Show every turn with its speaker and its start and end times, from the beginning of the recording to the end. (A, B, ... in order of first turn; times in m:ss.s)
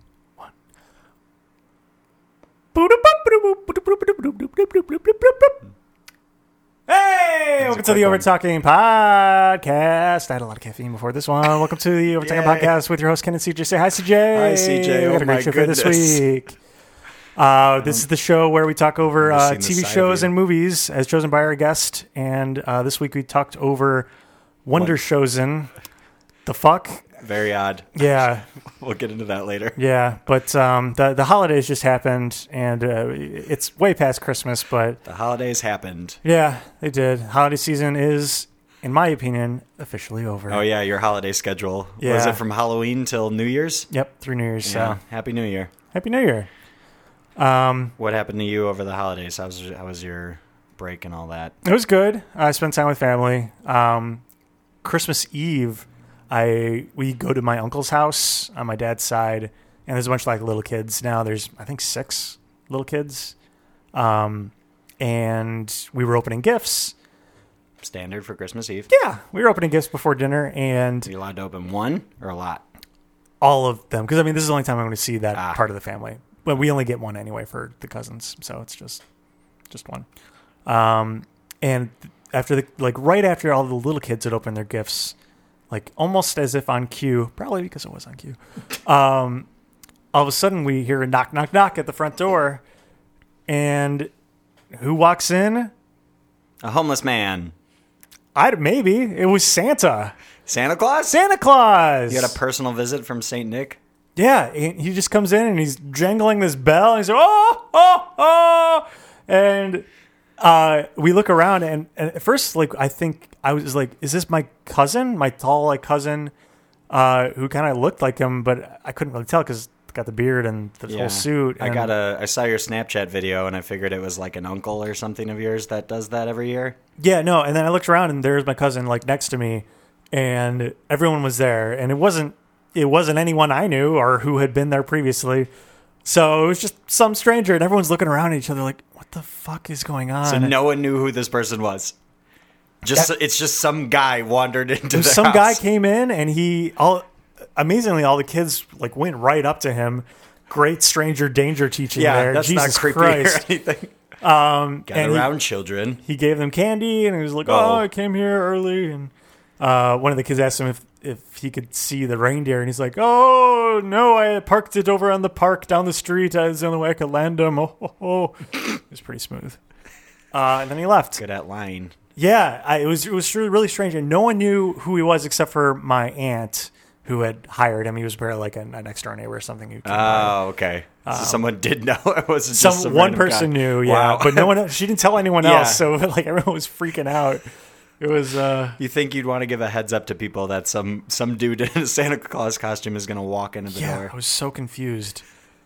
0:02.7-0:05.6 A
0:06.9-0:16.6 A
0:07.6-0:08.3 B
0:12.2-0:12.7 B
0:14.3-0:16.3 B
0:17.4-0:24.1 A
0:19.2-0:20.3 B
0:24.6-0:25.7 A
0:26.4-0:27.1 A
0:27.2-0:28.1 B
0:28.0-0:28.5 A
0:28.7-0:29.8 B
0:29.8-0:35.0 A
0:35.0-0:36.2 B
0:36.2-0:40.6 A
0:40.5-0:43.9 B
0:42.0-0:42.4 A
0:43.9-0:45.0 A
0:44.6-0:45.7 B
0:45.9-0:46.5 A
0:47.4-0:48.0 A
0:48.0-0:51.6 B
0:51.6-0:54.2 A
0:54.8-1:03.4 A
1:03.9-1:06.9 A
1:07.8-1:08.9 B
1:08.9-1:11.1 A
1:11.1-1:12.6 B
1:13.4-1:19.0 A
1:15.4-1:15.6 B
1:19.7-1:20.1 A
1:20.7-1:25.2 A
1:25.7-1:29.5 A
1:30.1-1:32.6 A
1:33.5-1:34.1 A
1:34.7-1:35.7 A
1:36.6-1:37.5 B
1:38.4-1:40.1 A
1:40.5-1:41.2 B
1:41.1-1:42.4 A
1:42.1-1:43.8 B
1:44.2-1:49.9 A
1:50.4-1:56.3 A
1:56.9-2:01.9 A
2:00.9-2:06.8 B
2:07.0-2:15.5 A
2:16.0-2:20.5 A
2:20.2-2:22.0 B
2:22.8-2:25.6 B
2:24.9-2:27.0 A
2:27.6-2:33.5 A
2:32.0-2:34.0 B
2:34.2-2:35.3 A
2:34.9-2:36.0 B
2:36.0-2:49.6 A
2:37.5-2:37.8 B
2:50.3-2:51.2 A
2:51.2-2:52.0 B
2:52.2-3:00.4 A
2:59.8-3:04.6 B
3:01.0-3:01.4 A
3:02.5-3:07.5 A
3:05.4-3:05.8 B
3:08.0-3:08.8 A
3:08.8-3:14.1 B
3:13.7-3:15.2 A